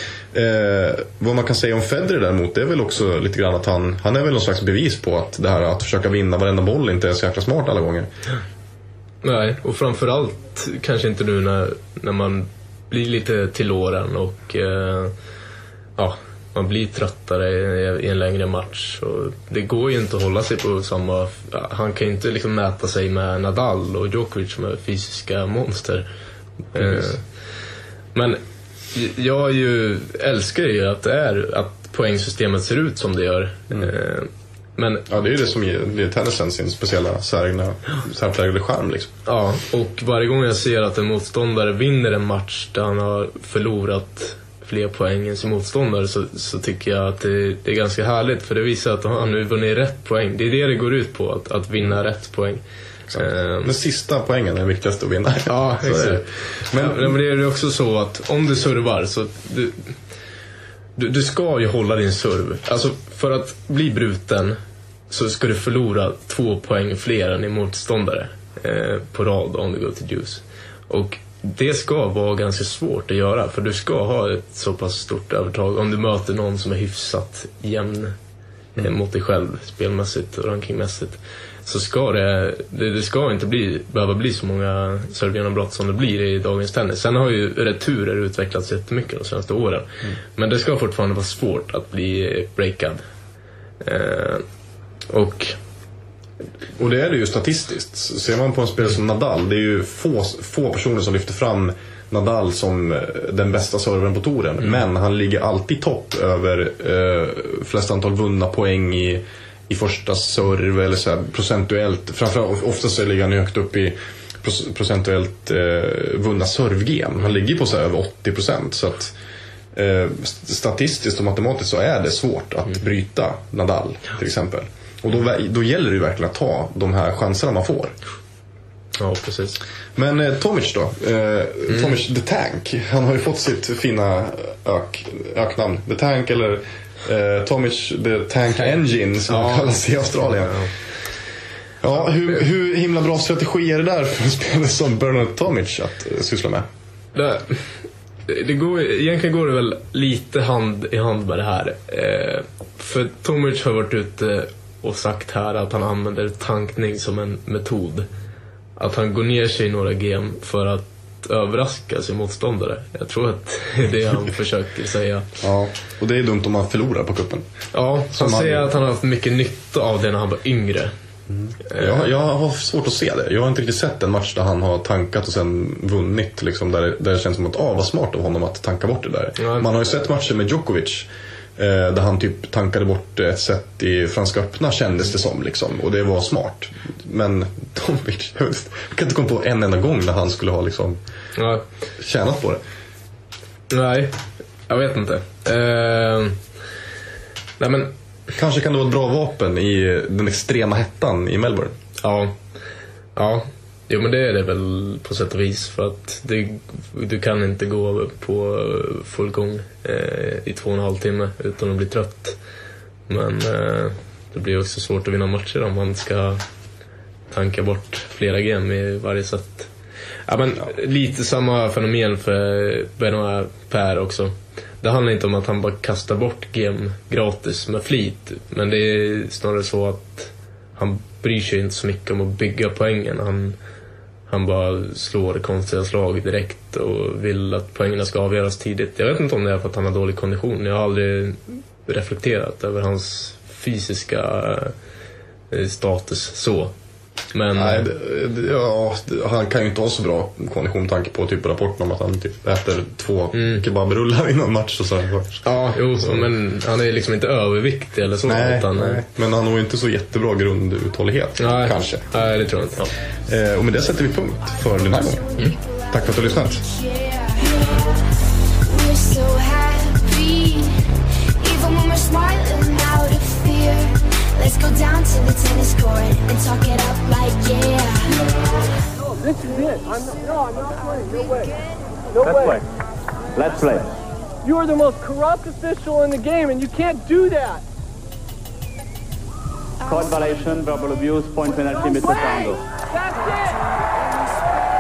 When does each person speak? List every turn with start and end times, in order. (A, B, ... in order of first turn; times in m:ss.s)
0:00.3-0:08.1 A
0:09.2-0:15.1 B
0:16.0-0:26.1 B
0:26.7-0:27.2 B
0:28.1-0:28.4 B
0:28.9-0:35.0 B
0:35.1-0:39.1 A
0:39.2-0:52.6 B
0:53.1-0:57.1 A
0:53.1-0:53.7 B
0:55.5-0:59.9 B
1:01.0-1:04.6 B
1:05.1-1:18.1 B
1:18.8-1:33.0 B
1:33.8-1:34.4 B
1:35.1-1:35.6 B
1:36.8-1:59.1 A
1:59.7-2:07.9 A
2:09.0-2:09.6 B
2:10.0-2:20.7 A
2:19.3-2:19.8 B
2:20.4-2:20.7 B
2:21.8-2:26.6 A
2:27.1-2:27.7 B
2:28.3-2:38.1 B
2:38.8-2:45.3 B
2:45.4-2:47.4 A
2:47.7-2:50.9 B
2:48.1-2:48.8 A
2:51.3-3:11.0 A
2:51.7-2:52.0 B
2:59.4-2:59.6 B
3:11.3-3:11.6 B
3:12.0-3:12.6 A
3:13.7-3:16.4 B
3:17.6-3:17.9 B
3:18.3-3:21.7 A
3:22.0-3:22.4 B
3:23.2-3:32.4 B
3:33.1-3:36.4 B
3:37.3-3:39.7 B
3:40.3-3:53.6 B
3:54.3-4:04.7 B
4:05.5-4:06.7 B
4:07.3-4:07.9 B
4:07.5-4:15.4 A
4:13.3-4:13.6 B
4:15.4-4:19.0 B
4:18.2-4:22.1 A
4:21.4-4:22.9 B
4:23.3-4:25.2 A
4:24.4-4:28.0 C
4:25.9-4:26.6 A
4:28.6-4:30.8 C
4:31.4-4:38.7 C
4:39.0-4:41.5 D
4:41.3-4:41.7 C
4:42.1-4:42.6 D
4:42.2-4:42.6 E
4:43.3-4:43.9 E
4:44.4-4:47.6 D
4:49.8-4:52.6 E
4:52.9-4:53.6 D
4:54.1-4:54.5 C